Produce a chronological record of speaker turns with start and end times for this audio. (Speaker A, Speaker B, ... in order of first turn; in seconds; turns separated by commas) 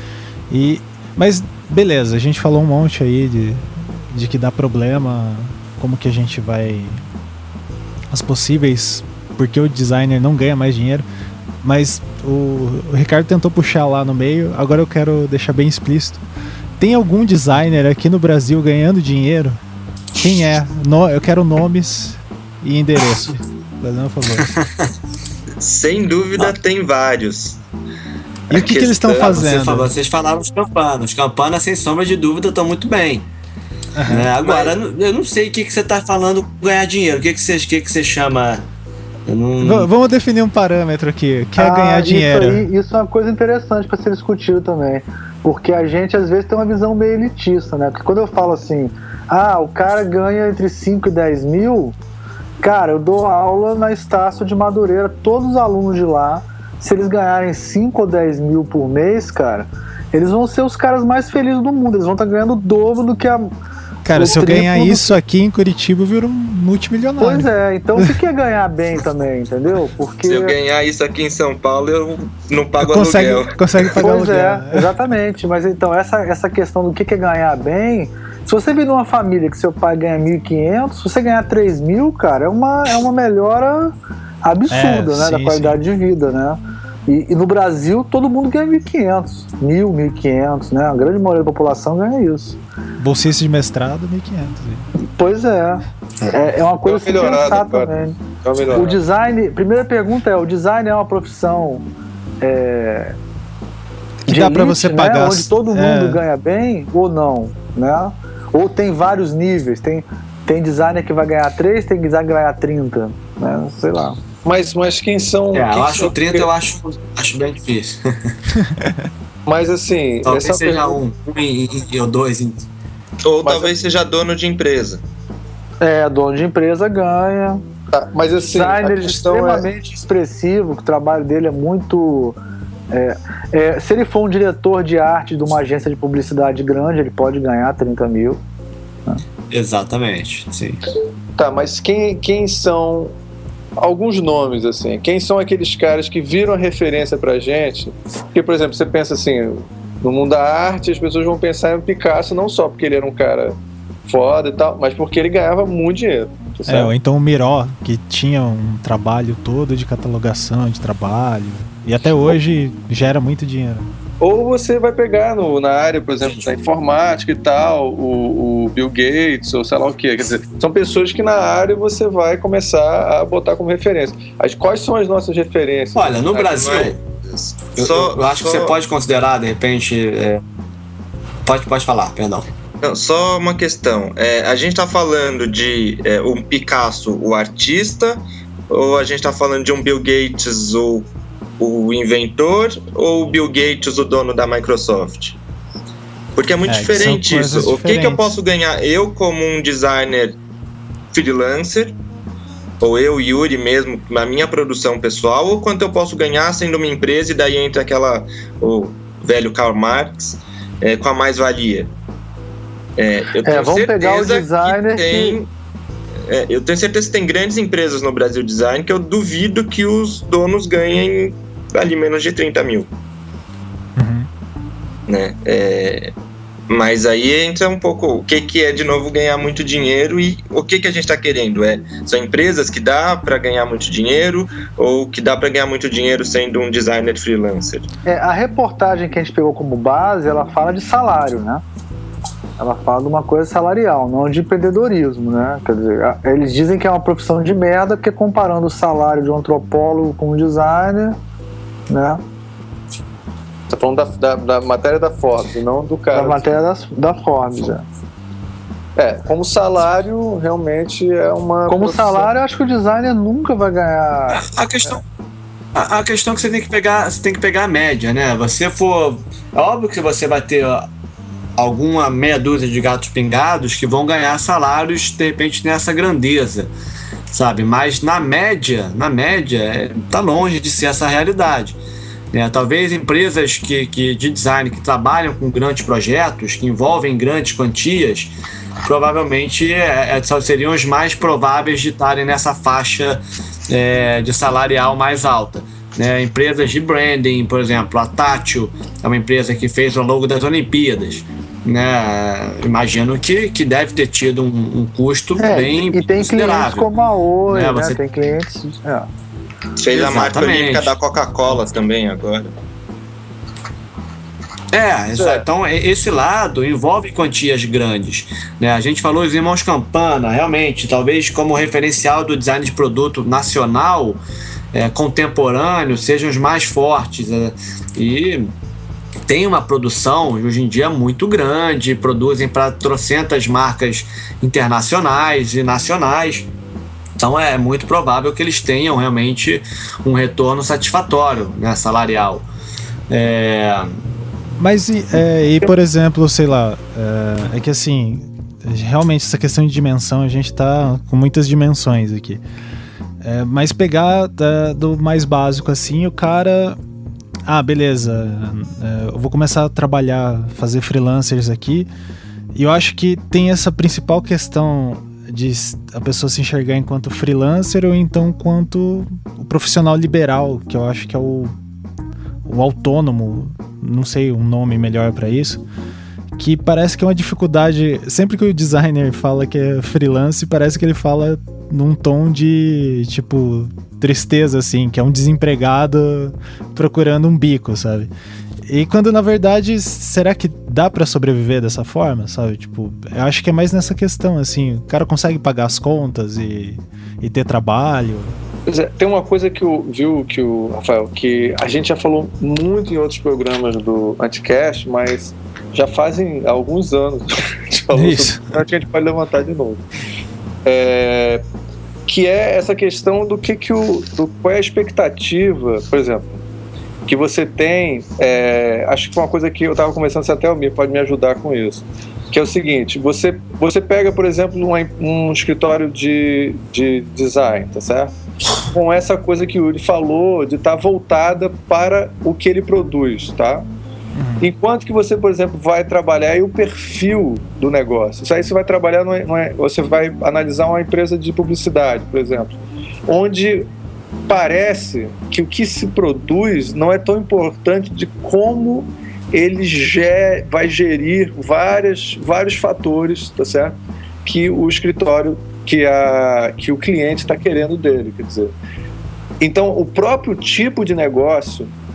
Speaker A: 0.5-7.0, Speaker A: 8.1-11.1, Speaker A: 11.6-16.2, Speaker A: 16.8-19.6, Speaker A: 20.2-24.5, Speaker B: 24.5-24.9, Speaker C: 25.6-27.6, Speaker A: 28.5-29.9, Speaker C: 28.5-29.4, Speaker B: 29.1-33.2, Speaker A: 34.0-34.3, Speaker B: 34.1-38.6, Speaker C: 34.4-34.7, Speaker B: 39.3-39.9, Speaker A: 39.6-42.6, Speaker D: 41.6-52.0, Speaker D: 52.6-63.5, Speaker A: 64.0-68.1, Speaker D: 64.1-65.1, Speaker D: 67.2-70.5, Speaker C: 70.2-73.9, Speaker A: 72.8-74.9, Speaker D: 74.0-92.6, Speaker A: 84.7-85.8, Speaker A: 93.0-94.9, Speaker D: 95.2-98.2, Speaker E: 96.8-99.0, Speaker D: 98.7-101.8, Speaker D: 102.4-103.2, Speaker A: 104.2-106.2, Speaker D: 104.3-114.2, Speaker E: 114.4-116.5, Speaker B: 115.5-118.3, Speaker E: 119.5-121.0, Speaker B: 120.2-122.7, Speaker C: 123.2-125.0, Speaker E: 123.4-123.7, Speaker D: 125.8-127.6, Speaker E: 127.9-129.7, Speaker D: 128.4-132.4, Speaker D: 132.9-138.4, Speaker B: 139.5-140.8, Speaker E: 141.4-143.1, Speaker E: 143.8-156.9, Speaker A: 156.7-163.9, Speaker E: 164.2-176.8, Speaker B: 166.2-166.5, Speaker B: 175.9-177.0, Speaker C: 176.5-178.8, Speaker B: 177.8-180.4, Speaker B: 181.4-182.5, Speaker C: 182.8-191.1, Speaker C: 191.6-195.4, Speaker C: 196.3-200.4, Speaker A: 196.7-198.3, Speaker C: 201.1-201.9, Speaker C: 202.8-211.9, Speaker C: 213.0-215.5, Speaker D: 213.4-215.4, Speaker C: 216.3-222.9, Speaker A: 224.0-224.3, Speaker C: 225.1-226.1, Speaker C: 226.7-237.9, Speaker D: 238.1-241.6, Speaker D: 242.6-251.2, Speaker D: 251.9-252.2, Speaker E: 253.7-256.5, Speaker D: 256.1-257.9, Speaker E: 258.9-262.3, Speaker D: 261.7-264.4, Speaker B: 264.3-265.0, Speaker B: 265.7-270.9, Speaker B: 271.6-276.7, Speaker B: 277.3-281.8, Speaker B: 282.3-288.3, Speaker B: 288.8-306.9, Speaker D: 305.4-309.1, Speaker B: 307.5-308.0, Speaker C: 309.8-312.5, Speaker B: 309.9-311.0, Speaker B: 314.7-324.2, Speaker D: 315.1-315.4, Speaker B: 324.7-328.5, Speaker B: 329.3-336.5, Speaker B: 337.2-342.4, Speaker B: 343.1-343.9, Speaker A: 344.6-352.4, Speaker A: 353.2-356.8, Speaker A: 357.4-361.9, Speaker A: 362.5-371.5, Speaker A: 372.4-375.6, Speaker A: 376.4-388.1, Speaker A: 388.7-398.4, Speaker E: 398.7-409.8, Speaker A: 407.9-408.4, Speaker E: 410.6-411.4, Speaker E: 412.1-416.4, Speaker E: 417.1-428.1, Speaker E: 428.6-433.7, Speaker A: 434.1-434.5, Speaker E: 434.4-443.7, Speaker E: 444.3-458.5, Speaker E: 459.4-461.7